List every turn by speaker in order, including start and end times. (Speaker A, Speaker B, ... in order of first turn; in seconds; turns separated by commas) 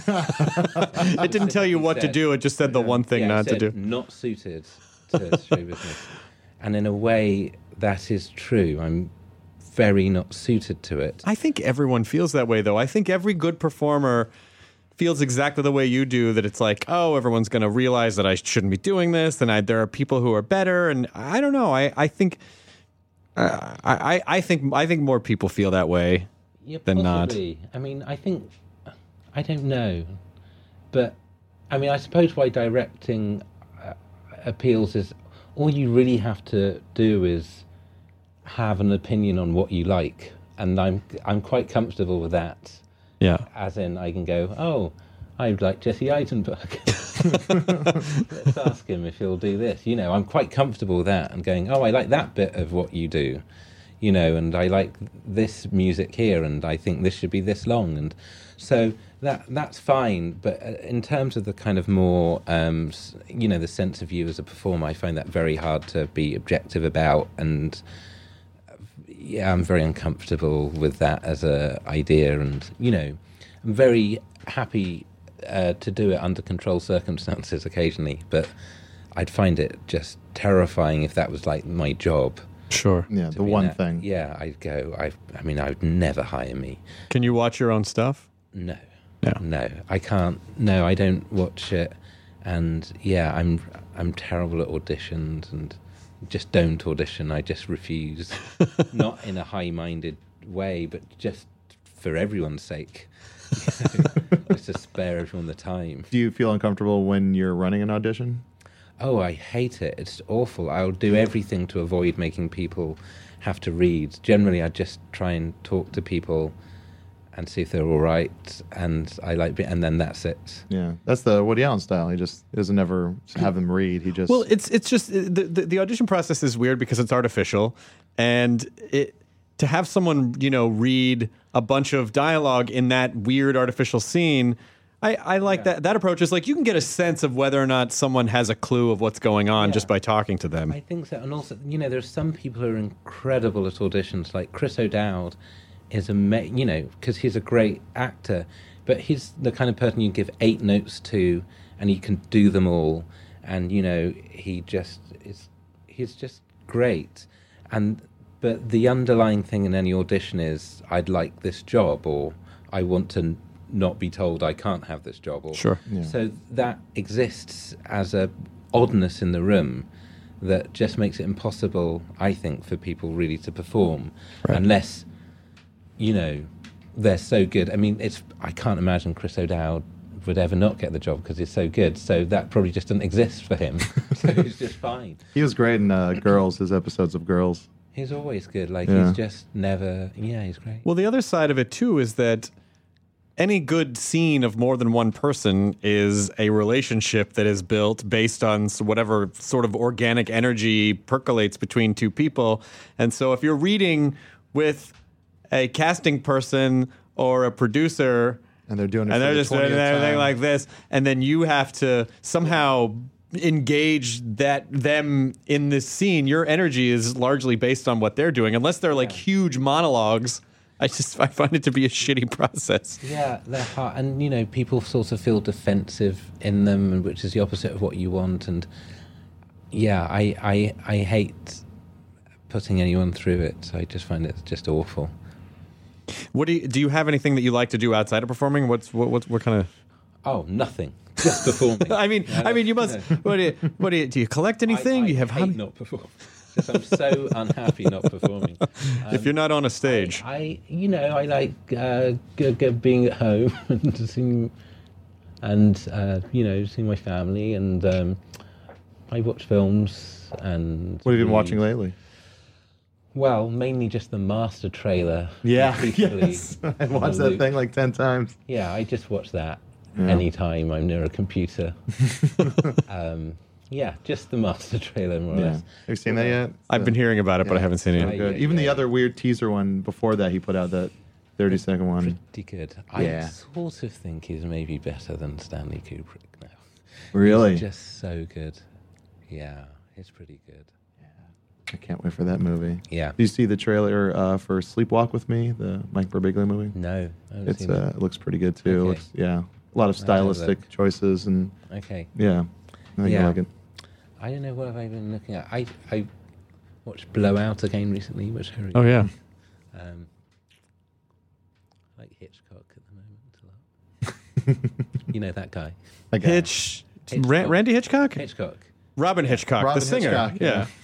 Speaker A: 0.1-0.9, Speaker B: 0.7-3.7, Speaker C: 0.8-9.1, Speaker C: 9.7-11.2, Speaker B: 11.2-14.3, Speaker B: 15.0-22.4, Speaker B: 23.4-26.3, Speaker C: 26.6-28.5, Speaker B: 26.9-27.4, Speaker C: 29.3-30.2, Speaker C: 30.9-31.2, Speaker C: 31.7-37.6, Speaker C: 38.5-42.8, Speaker C: 43.5-53.4, Speaker C: 54.0-67.8, Speaker C: 69.0-78.5, Speaker C: 79.2-82.4, Speaker B: 82.7-83.1, Speaker A: 83.1-84.0, Speaker C: 83.3-86.8, Speaker B: 87.1-88.3, Speaker C: 88.5-88.8, Speaker C: 89.4-106.1, Speaker A: 106.1-108.4, Speaker C: 109.0-116.5, Speaker C: 117.3-120.7, Speaker A: 120.7-124.5, Speaker B: 124.3-140.8, Speaker C: 135.4-135.7, Speaker C: 139.6-139.9, Speaker C: 140.7-145.4, Speaker C: 145.9-169.9, Speaker B: 165.5-165.8, Speaker A: 165.9-166.1, Speaker C: 170.4-175.1, Speaker C: 176.0-185.2, Speaker A: 185.3-187.7, Speaker C: 187.9-190.9, Speaker A: 188.9-189.2, Speaker B: 190.8-192.5, Speaker B: 193.4-204.9, Speaker B: 205.5-208.4, Speaker A: 208.7-210.3, Speaker B: 209.1-223.0, Speaker C: 218.9-219.2, Speaker C: 223.0-228.7, Speaker C: 229.7-231.6, Speaker C: 232.5-235.1, Speaker B: 236.3-239.7, Speaker C: 240.2-243.2, Speaker B: 241.9-245.6, Speaker C: 244.7-254.5, Speaker B: 249.1-250.2, Speaker C: 255.4-258.2, Speaker C: 259.1-261.6, Speaker A: 261.1-261.9, Speaker C: 263.1-267.5, Speaker A: 265.4-268.4, Speaker C: 268.5-271.8, Speaker A: 270.0-270.2, Speaker A: 272.1-272.8, Speaker C: 272.9-276.4, Speaker A: 275.3-282.2, Speaker B: 276.7-278.2, Speaker C: 278.0-278.9, Speaker C: 282.0-286.6, Speaker A: 282.9-283.3, Speaker A: 287.1-287.6, Speaker C: 287.1-288.6, Speaker C: 289.3-290.7, Speaker A: 291.7-296.8, Speaker C: 292.9-293.2, Speaker C: 296.8-297.9, Speaker A: 297.4-301.6, Speaker C: 298.6-299.1, Speaker C: 300.0-300.6, Speaker C: 301.7-302.1, Speaker A: 302.1-303.5, Speaker C: 303.0-303.4, Speaker C: 304.2-306.1, Speaker C: 306.8-309.1, Speaker B: 308.7-309.1, Speaker C: 309.7-310.1, Speaker C: 312.0-313.6, Speaker C: 315.1-316.5, Speaker A: 316.1-316.5, Speaker B: 316.2-318.2, Speaker C: 317.1-318.7, Speaker B: 319.0-320.7, Speaker C: 319.2-319.5, Speaker A: 319.6-320.7